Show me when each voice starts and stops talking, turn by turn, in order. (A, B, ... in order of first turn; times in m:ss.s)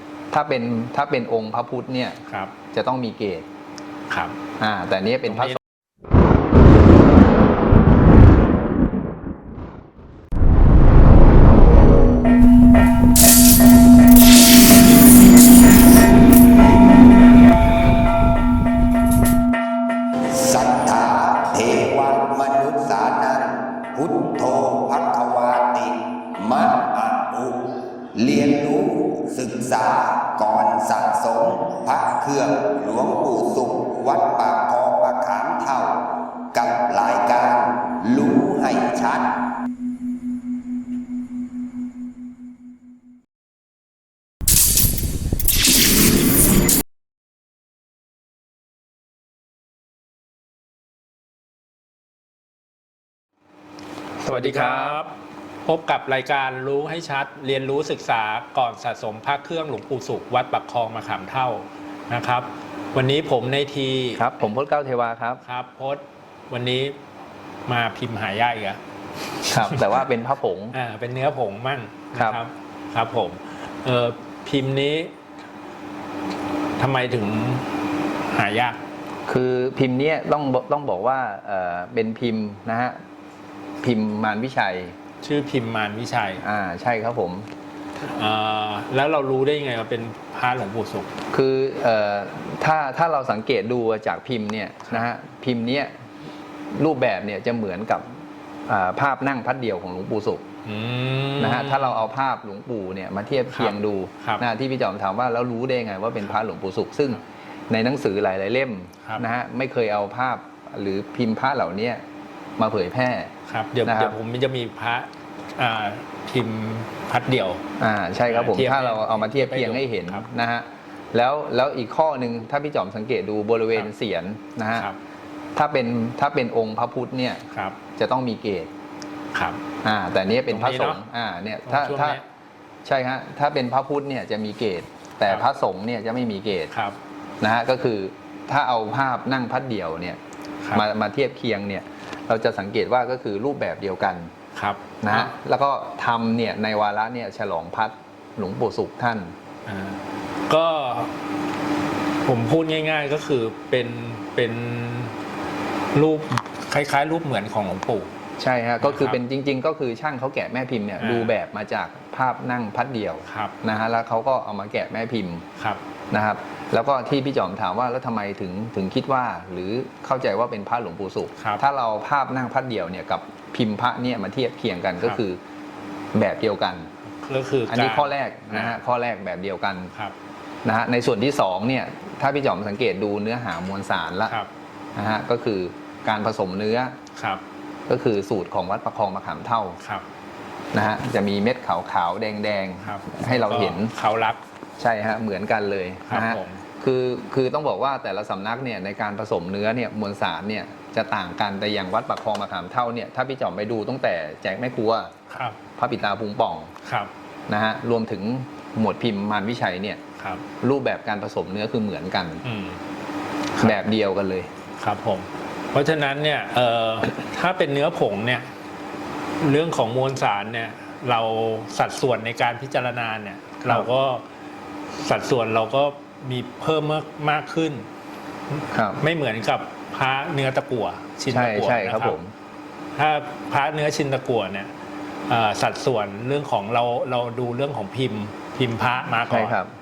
0:00.3-0:03.5 A
0:02.3-0:02.5 B
0:04.1-0:04.4 B
0:04.6-0:05.6 A
0:05.3-0:05.6 B
0:20.3-0:39.4 C
0:54.2-0:55.0 A
0:54.4-1:04.2 B
1:04.1-1:05.4 A
1:05.4-1:07.0 B
1:07.7-1:08.8 B
1:09.4-1:10.0 B
1:09.5-1:10.8 A
1:10.7-1:15.1 B
1:12.1-1:12.4 A
1:16.8-1:18.8 B
1:19.3-1:23.0 A
1:23.8-1:25.0 A
1:25.2-1:26.4 B
1:26.4-1:27.5 A
1:28.0-1:31.1 B
1:31.3-1:36.1 A
1:36.7-1:40.4 A
1:40.6-1:42.0 B
1:41.4-1:52.0 A
1:43.5-1:44.4 B
1:52.6-1:53.3 A
1:53.5-1:57.6 B
1:53.8-1:54.2 A
1:57.8-2:04.9 A
1:58.3-2:00.3 B
2:05.6-2:08.7 A
2:07.5-2:07.8 B
2:09.3-2:09.6 B
2:09.8-2:12.2 A
2:10.5-2:11.0 B
2:11.7-2:12.2 B
2:12.8-2:16.7 A
2:16.7-2:17.0 B
2:17.4-2:20.2 A
2:20.7-2:24.3 A
2:24.6-2:25.3 B
2:25.0-2:29.4 A
2:29.7-2:31.2 B
2:32.2-2:35.2 B
2:35.9-2:38.1 B
2:38.4-2:45.4 A
2:38.8-2:39.2 B
2:41.0-2:41.3 B
2:43.3-2:43.6 B
2:46.1-2:55.4 A
2:56.1-2:56.9 A
2:57.2-2:58.8 B
2:57.7-2:59.9 A
3:00.6-3:04.4 A
3:05.0-3:07.0 A
3:07.2-3:07.4 B
3:07.9-3:09.8 A
3:09.8-3:10.1 B
3:10.7-3:13.9 A
3:12.8-3:14.4 B
3:14.8-3:25.1 A
3:16.1-3:16.6 B
3:25.3-3:25.6 B
3:25.8-3:26.7 A
3:26.8-3:27.1 B
3:27.5-3:30.0 A
3:30.2-3:30.4 B
3:30.6-3:32.5 A
3:32.4-3:32.8 B
3:33.6-3:34.5 A
3:34.8-3:38.5 B
3:39.4-3:44.2 B
3:44.9-3:47.9 B
3:48.5-3:52.2 B
3:48.7-3:49.0 A
3:51.3-3:52.3 A
3:53.0-3:54.7 B
3:55.3-3:59.6 B
3:59.2-3:59.7 A